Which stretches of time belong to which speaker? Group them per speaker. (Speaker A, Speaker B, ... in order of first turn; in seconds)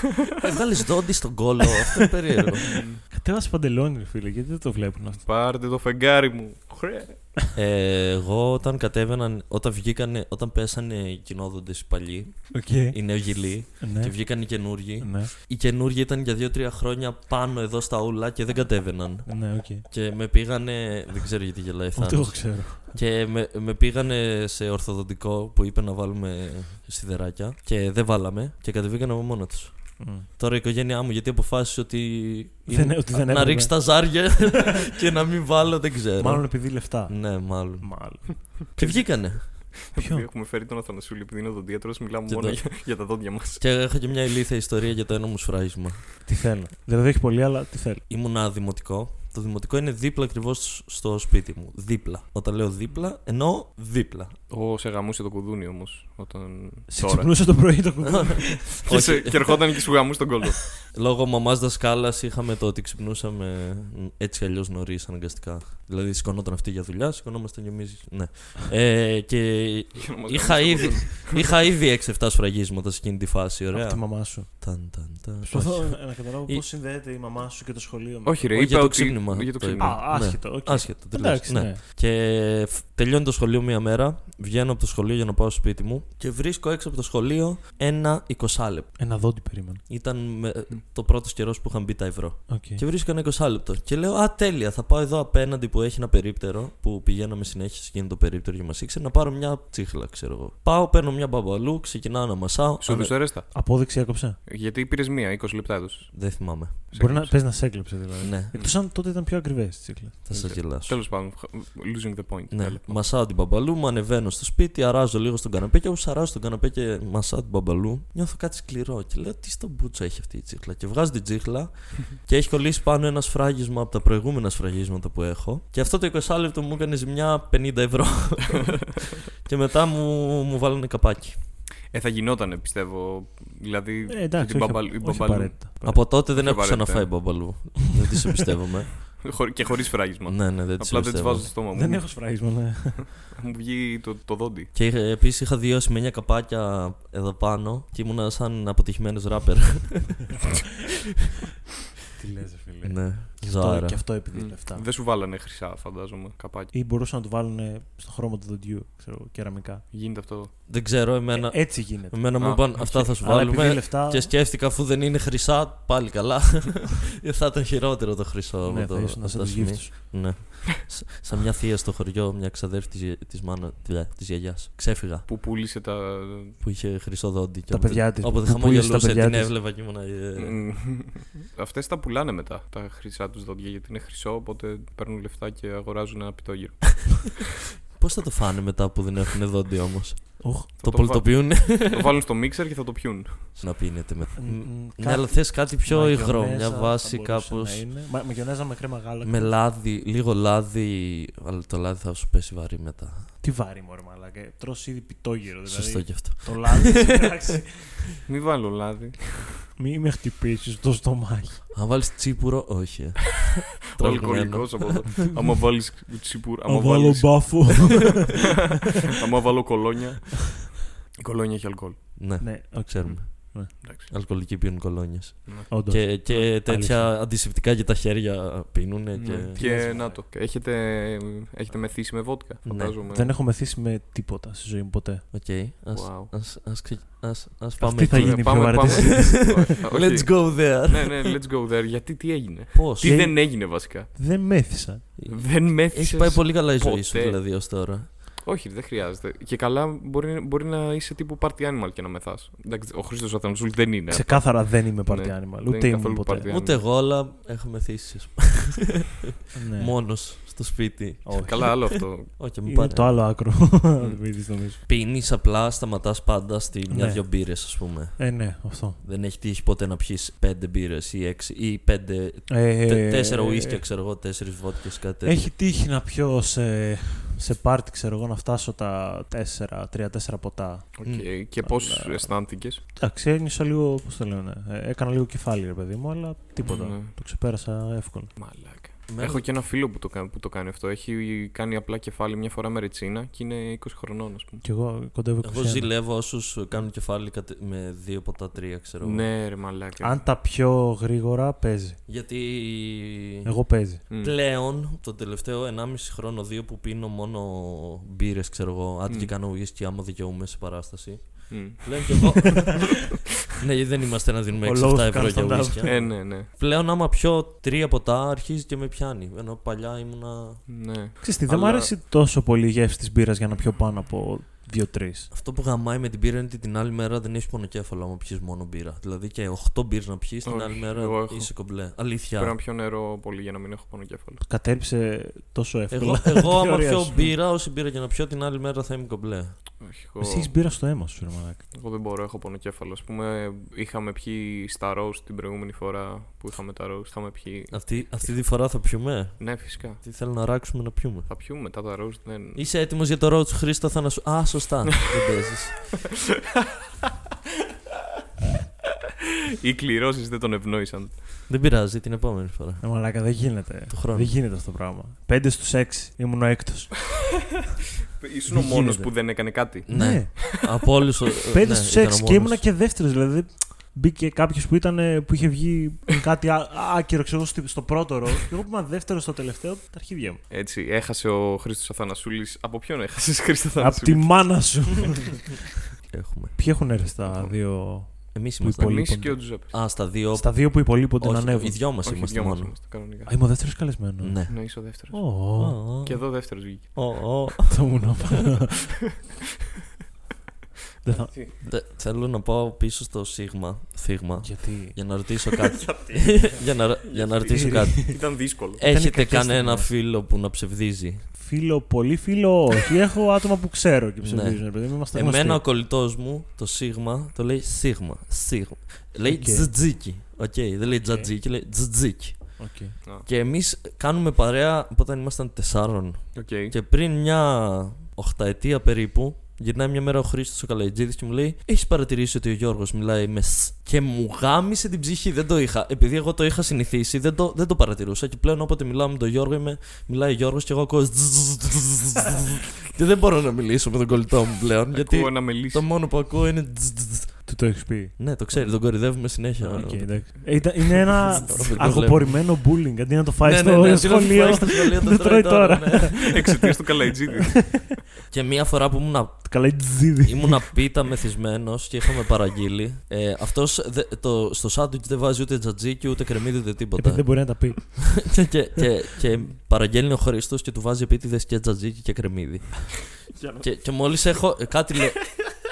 Speaker A: 0.4-2.8, 7.5-39.7, 42.3-42.9, 43.6-46.1, 48.1-54.4, 58.1-59.7, 60.8-76.6, 78.5-89.1, 89.9-103.2, 106.1-106.9, 108.2-108.5, 110.3-111.0, 112.5-131.4, 135.8-139.3, 140.2-141.5, 144.7-150.4, 152.8-154.1, 160.7-175.3, 176.6-180.8, 188.0-192.2, 193.6-197.8, 199.2-203.3, 205.7-207.4, 211.7-215.1, 222.2-229.9, 232.7-233.0, 235.3-241.4, 242.7-243.2, 245.2-248.1, 256.5-259.2, 259.7-263.2, 264.9-268.4, 269.0-275.5, 281.1-281.3, 289.1-289.4, 295.4-299.3, 302.1-320.7, 325.3-332.6, 335.9-339.7, 347.7-351.3, 352.6-355.9, 361.5-362.9, 363.9-364.3, 369.9-372.6, 386.1-386.6, 388.3-392.8, 394.2-394.6, 395.6-398.3, 401.6-411.3, 414.2-422.7, 423.2-447.6, 448.2-452.4, 453.4-456.4, 458.3-475.3
Speaker B: 2.7-3.0, 5.2-7.3, 38.7-43.6, 54.5-57.3, 58.8-60.8, 70.0-71.5, 78.2-80.4, 102.8-103.5, 104.5-107.9, 110.3-113.1, 131.9-137.4, 139.2-142.6, 143.3-144.7, 154.3-156.7, 159.9-160.5, 162.4-162.8, 175.3-176.6, 180.4-187.4, 190.8-193.6, 208.3-209.6, 214.0-218.1, 218.8-222.4, 223.7-224.1, 229.1-233.3, 235.9-236.3, 238.0-244.1, 245.3-247.6, 248.4-256.8, 261.4-262.4, 281.0-282.8, 286.6-287.1, 288.4-294.6, 299.0-300.3, 304.1-304.4, 311.5-312.4, 315.9-316.5, 320.7-321.9, 330.4-334.4, 339.8-340.5, 341.7-348.8, 349.4-350.0, 351.3-352.6, 359.6-361.3, 368.2-370.4, 380.5-384.8, 387.3-387.5, 388.8-389.8, 392.0-393.3, 394.5-395.4, 396.0-397.4, 401.1-401.6, 405.6-408.8, 426.4-426.7, 444.9-445.9, 451.3-451.7, 456.3-458.0, 473.4-473.6
Speaker C: 3.1-5.2, 12.5-15.3, 19.3-19.9, 21.9-23.0, 30.0-30.3, 32.7-34.5, 36.2-38.4, 40.0-40.3, 46.2-48.0, 56.9-58.8, 73.7-78.5, 79.8-81.8, 89.0-89.8, 92.5-92.8, 103.5-104.4, 106.9-110.3, 134.1-136.1, 141.7-143.2, 152.2-154.9, 156.7-159.9, 161.3-164.3, 168.7-170.3, 177.7-179.6, 190.4-190.7, 194.4-199.6, 203.4-208.1, 209.8-211.7, 216.7-218.5, 222.4-223.7, 225.7-227.2, 229.5-230.2, 233.1-235.3, 237.8-239.6, 243.0-245.1, 254.1-256.5, 259.5-260.0, 261.2-262.1, 262.6-264.8, 266.9-269.0, 272.5-273.9, 275.2-288.4, 294.6-295.9, 300.0-302.0, 303.4-304.1, 314.6-316.1, 321.2-325.3, 334.4-337.2, 340.2-341.7, 362.8-367.0, 368.5-369.1, 369.9-370.4, 371.5-380.4, 383.8-385.6, 386.5-391.8, 393.3-395.8, 397.7-399.0, 401.0-401.4, 404.4-405.0, 407.5-409.9, 411.3-415.6, 419.3-419.8, 421.0-421.3, 422.6-423.0, 447.5-456.7, 457.5-457.8, 459.5-460.9, 467.0-468.4